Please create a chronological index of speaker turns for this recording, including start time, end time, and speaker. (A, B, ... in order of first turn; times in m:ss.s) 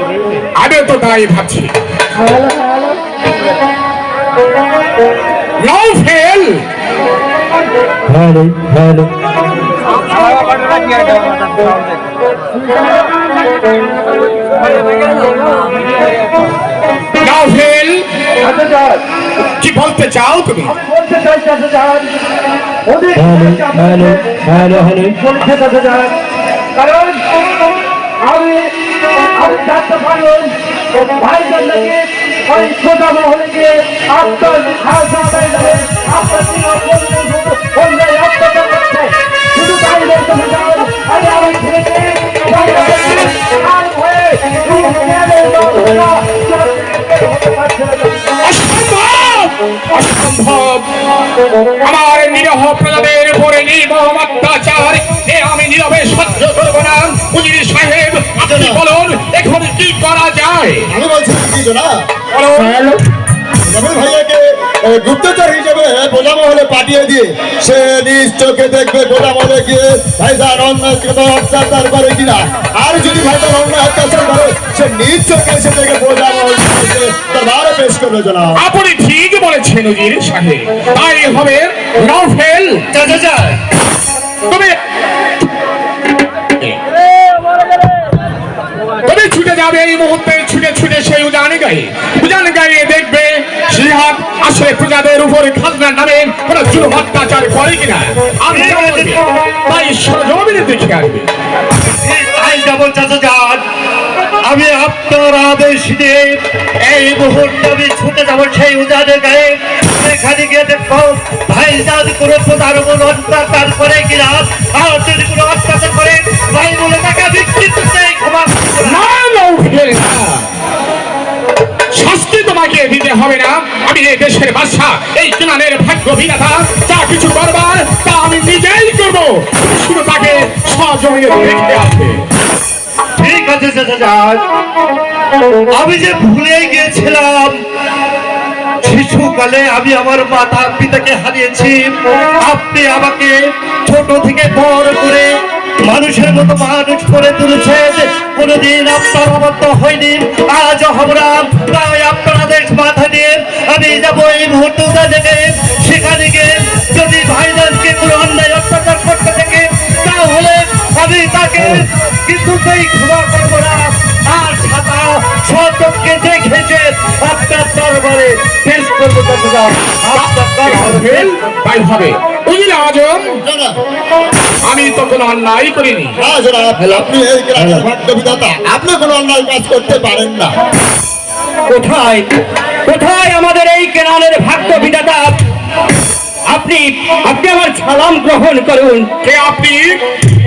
0:00.6-0:01.7 A
0:05.6-0:06.6 A
0:08.2-0:09.0 B
0:17.2-0:18.1 A
0:18.4-0:19.0 C
0:19.6-0:20.8 A
0:20.8-0:22.2 C
0:22.9-0:24.0 C
0:23.2-0:25.2 B
0:25.2-0:26.1 C
0:26.8-0:27.2 C
0:28.2-0:28.7 C
0:29.3-0:48.2 C
0:48.4-0:50.9 A
0:51.8-1:00.9 A
0:58.4-0:58.8 D
1:00.9-1:01.9 D
1:02.3-1:02.7 A
1:02.5-1:03.0 B
1:03.6-1:18.6 D
1:18.6-1:22.8 A
1:22.9-1:23.6 E
1:24.5-1:24.7 A
1:29.0-1:41.3 A
1:38.5-1:39.2 E
1:41.9-1:43.6 E
1:44.4-1:59.1 E
1:58.8-2:00.5 A
2:01.9-2:12.2 A
2:13.2-2:14.4 E
2:15.7-2:17.6 E
2:18.8-2:21.8 E
2:22.4-2:51.3 E
2:50.1-2:53.4 A
2:53.4-2:53.8 D
2:54.6-2:56.2 A
2:56.2-3:00.5 D
3:01.7-3:02.3 B
3:02.8-3:05.4 B
3:06.5-3:09.1 B
3:09.2-3:10.0 A